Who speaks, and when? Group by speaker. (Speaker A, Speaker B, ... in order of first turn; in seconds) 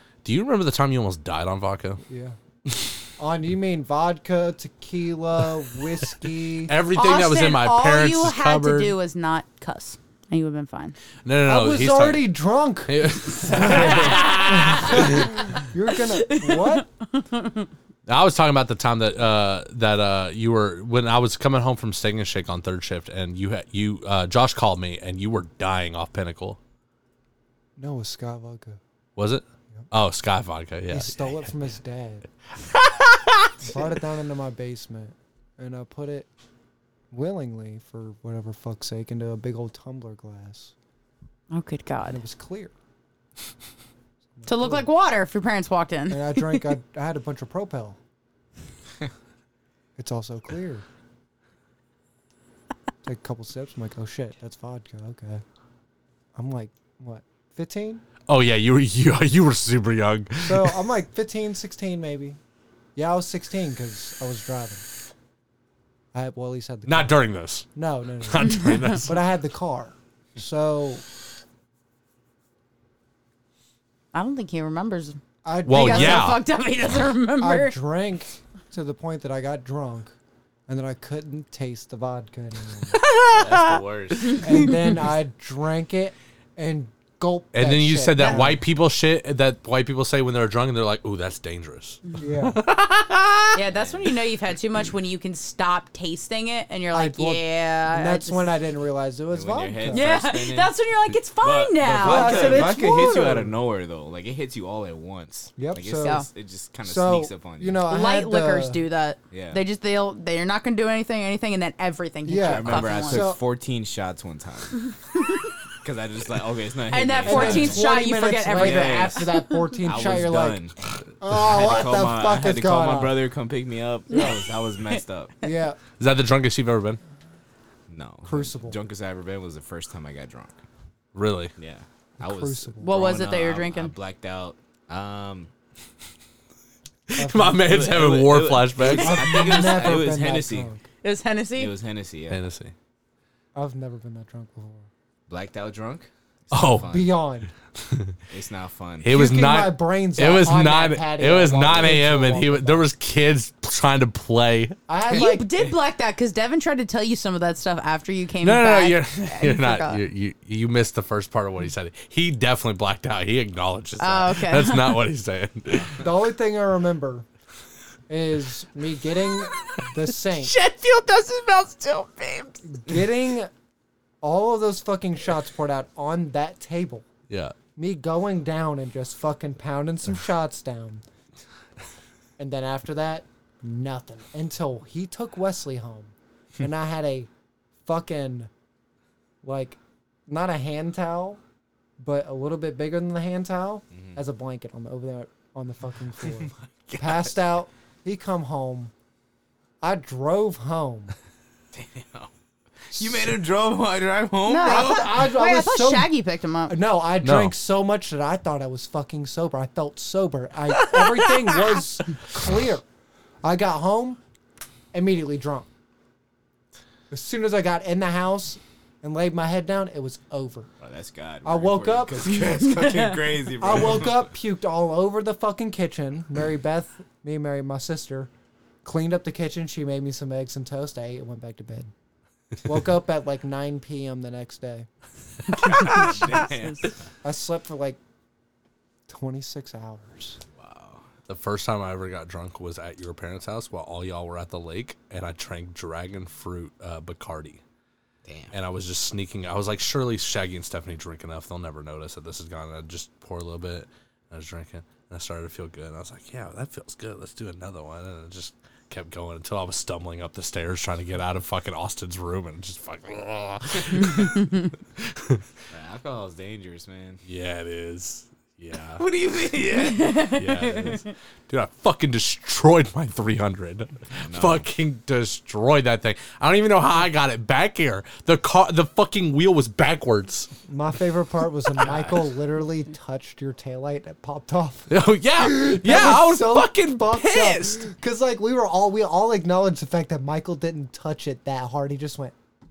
Speaker A: 0.2-2.0, 6.7-8.9, 11.2-12.3, 12.9-15.3, 18.1-26.6, 29.2-31.2, 58.3-60.8, 66.9-67.7, 68.2-69.1, 75.7-76.4, 87.5-93.5, 126.0-127.0, 131.2-131.5, 137.1-139.2, 142.3-142.7, 146.5-146.9, 149.0-154.8, 158.4-166.0, 177.3-177.6, 207.2-207.5, 241.3-247.6, 248.5-264.6, 265.1-265.4, 267.2-269.0, 270.2-280.5, 284.9-287.8
Speaker B: 2.1-2.4, 3.2-6.7, 11.5-16.9, 27.8-28.8, 30.9-32.2, 33.6-36.3, 37.1-40.7, 42.0-42.7, 44.4-44.9, 46.1-48.0, 50.0-50.8, 53.0-55.4, 56.4-58.0, 60.4-62.4, 63.0-64.9, 66.1-67.2, 67.8-71.0, 75.5-76.4, 77.4-80.1, 80.7-83.0, 84.4-88.6, 92.2-92.6, 96.9-100.1, 101.9-103.5, 105.6-106.2, 106.8-108.8, 112.3-113.4, 117.2-120.7, 121.2-123.2, 125.4-125.8, 128.2-128.8, 132.2-132.9, 137.2-137.9, 138.8-140.8, 143.6-144.9, 146.9-147.5, 149.1-152.9, 154.9-155.5, 166.0-167.3, 168.1-170.5, 172.7-173.5, 174.2-177.1, 177.8-181.0, 182.4-187.3, 187.8-188.5, 189.4-191.4, 192.0-198.9, 199.8-201.1, 204.6-206.1, 206.7-212.8, 213.4-214.2, 214.9-215.7, 217.1-220.7, 221.4-222.5, 223.6-228.3, 228.8-231.9, 232.6-234.9, 237.2-238.0, 239.1-240.4, 280.7-292.3
Speaker C: 6.9-11.0, 13.8-15.1, 16.1-17.7, 41.5-42.2, 44.5-46.7, 74.1-77.8, 93.5-98.5, 99.9-102.8, 106.0-106.3, 107.9-113.3, 116.9-119.6, 132.8-133.9, 139.2-139.8, 141.0-141.7, 155.1-160.0, 164.0-165.0, 170.4-172.6, 204.5-206.8, 270.0-270.9
Speaker D: 83.3-84.7, 93.7-94.1, 99.3-100.8, 101.4-107.8, 109.3-109.6, 112.4-114.8, 115.8-117.8, 118.5-119.3, 119.8-120.8, 121.3-125.3, 127.9-130.6, 131.6-135.5, 137.6-140.7, 141.6-142.4, 145.3-147.1, 148.3-149.1, 193.9-194.2, 196.4-197.3, 201.7-202.3, 202.9-205.2, 220.8-224.2, 235.5-237.0, 240.6-241.1, 248.2-248.6, 265.7-267.2, 269.0-270.5, 274.1-274.7, 281.8-282.2